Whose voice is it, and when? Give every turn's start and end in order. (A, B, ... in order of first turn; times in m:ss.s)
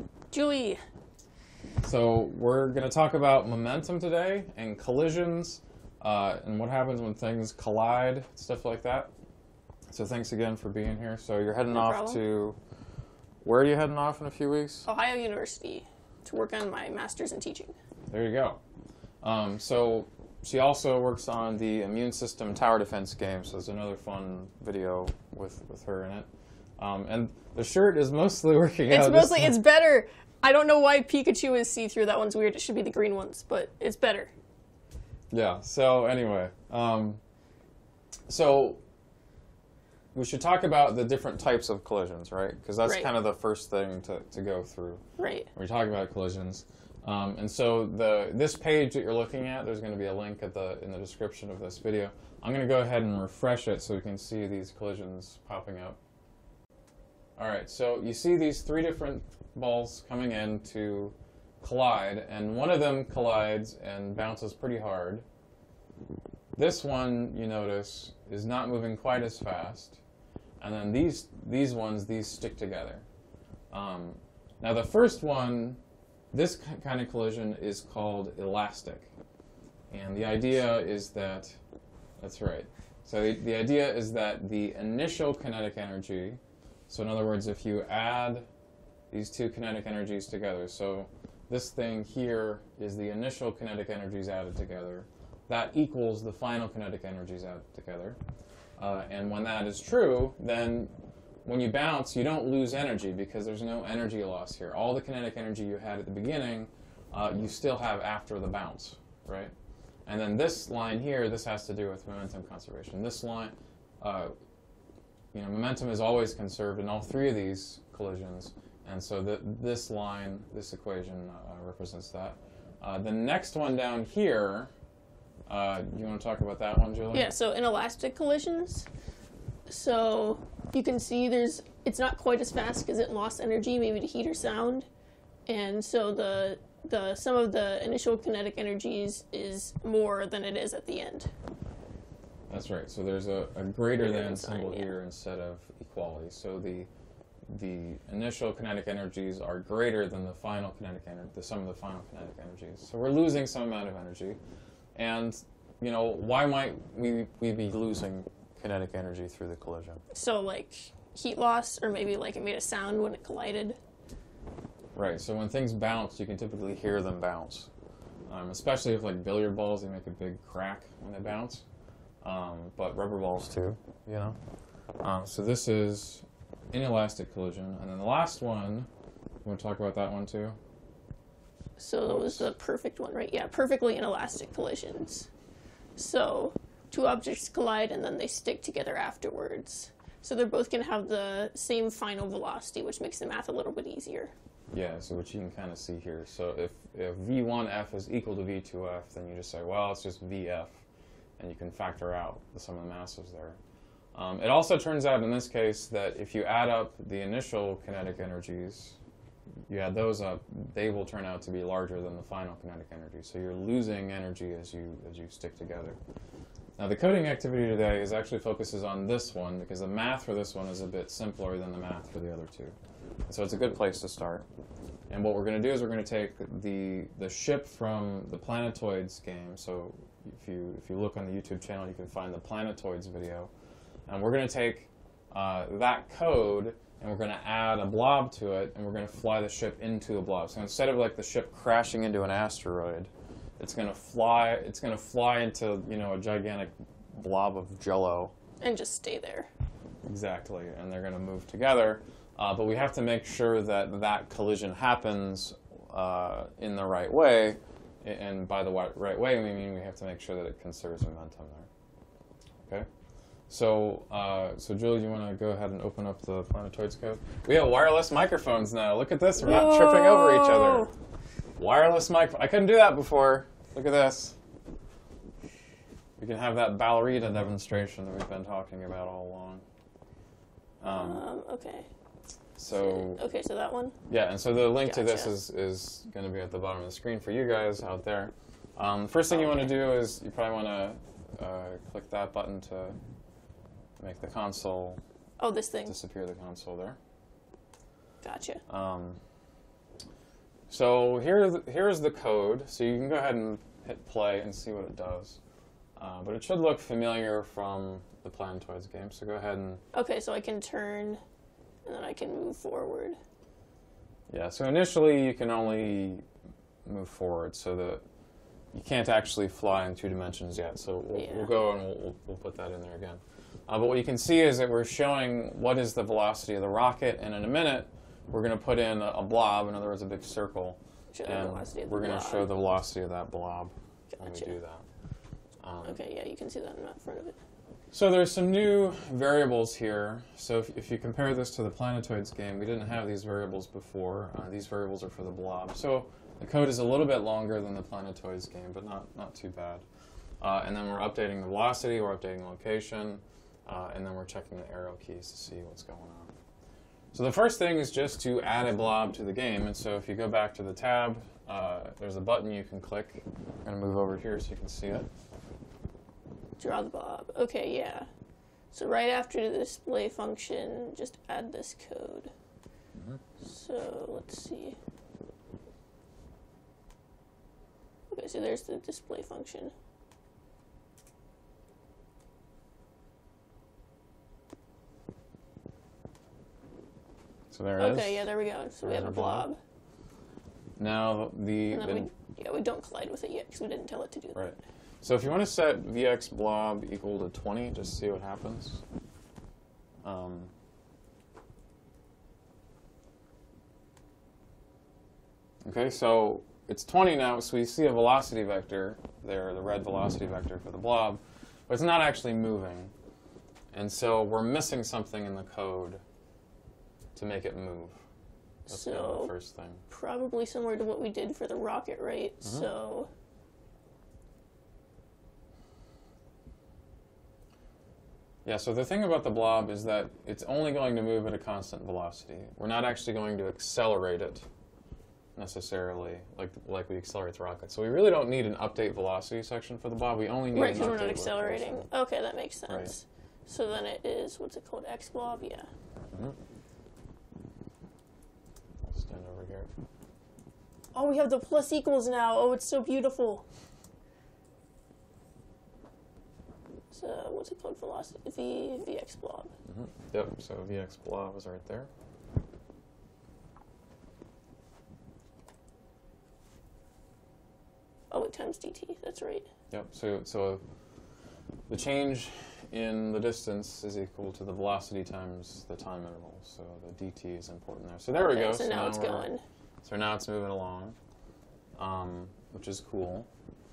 0:00.3-0:00.8 A
0:01.8-0:09.1 B
0:09.9-0:12.6 B
0:11.7-0:12.2 A
0:13.4-0:14.9 B
0:14.9-0:17.8 A
0:18.1-0:18.6 B
0:19.2-0:29.6 B
0:28.9-0:34.3 A
0:35.3-0:37.2 B
0:38.3-0:38.8 B
0:40.2-0:45.0 B
0:42.8-0:43.1 A
0:45.2-0:45.5 A
0:45.6-0:56.0 B
0:57.4-1:05.2 B
1:06.6-1:10.0 B
1:10.6-1:13.0 B
1:13.7-1:15.8 B
1:16.3-1:19.1 B
1:19.9-1:21.6 B
1:22.2-1:28.5 B
1:29.1-1:38.2 B
1:38.8-1:40.9 B
1:41.4-1:49.5 B
1:50.1-1:54.3 B
1:55.3-2:04.7 B
2:05.5-2:07.3 B
2:07.1-2:08.9 A
2:09.7-2:14.9 A
2:15.5-2:21.3 A
2:22.5-2:26.9 B
2:24.0-2:25.0 A
2:27.5-2:34.4 B
2:35.0-2:40.0 B
2:40.1-2:43.8 A
2:45.0-2:47.7 B
2:48.3-2:51.6 B
2:52.2-2:54.4 B
2:55.0-2:58.9 B
2:59.4-3:00.6 B
3:01.8-3:05.3 A
3:02.0-3:02.5 B
3:06.0-3:14.3 A
3:14.7-3:20.8 B
3:21.4-3:23.6 B
3:24.1-3:29.0 B
3:29.7-3:36.0 B
3:36.8-3:42.8 B
3:43.3-3:44.5 B
3:45.1-3:53.5 B
3:54.1-4:08.3 B
4:08.6-4:09.5 A
4:10.1-4:21.7 B
4:23.5-4:30.9 B
4:29.4-4:30.9 A
4:31.6-4:34.4 B
4:36.2-4:39.6 B
4:40.8-4:41.2 B
4:40.8-4:41.9 A
4:42.6-4:43.2 B
4:42.7-4:44.0 A
4:44.1-4:53.0 B
4:44.8-4:45.3 A
4:49.3-4:49.8 A
4:54.0-4:55.0 B
4:55.4-4:56.0 A
4:55.9-4:57.0 B
4:58.2-4:58.6 A
4:58.7-4:59.2 B
5:00.7-5:05.4 B
5:06.0-5:09.8 B
5:09.9-5:11.2 A
5:11.8-5:13.2 A
5:14.3-5:16.2 B
5:16.9-5:18.0 B
5:18.7-5:34.8 B
5:21.1-5:21.5 A
5:31.1-5:32.5 A
5:34.1-5:34.5 A
5:35.6-5:36.0 B
5:35.8-5:37.4 A
5:37.9-5:49.8 B
5:50.4-5:56.3 B
5:57.1-6:05.1 B
6:06.6-6:08.1 A
6:08.7-6:12.3 A
6:13.4-6:14.8 A
6:18.1-6:19.7 A
6:27.5-6:29.5 B
6:27.8-6:29.6 A
6:30.8-6:32.1 B
6:31.7-6:34.4 A
6:34.4-6:38.8 B
6:40.0-6:40.5 B
6:45.6-6:52.9 B
6:53.7-6:56.0 B
6:57.2-6:58.0 B
6:58.7-6:59.3 A
6:58.7-6:59.8 B
6:59.9-7:03.1 A
7:02.4-7:02.7 B
7:08.4-7:14.5 B
7:15.4-7:21.9 B
7:20.5-7:25.7 A
7:28.8-7:29.7 B
7:30.9-7:33.5 A
7:36.9-7:39.5 A
7:39.7-7:41.9 B
7:48.1-7:49.5 A
7:49.7-7:50.6 B
7:51.7-7:59.3 B
7:58.1-7:59.4 A
7:59.8-8:01.0 B
8:01.8-8:03.3 B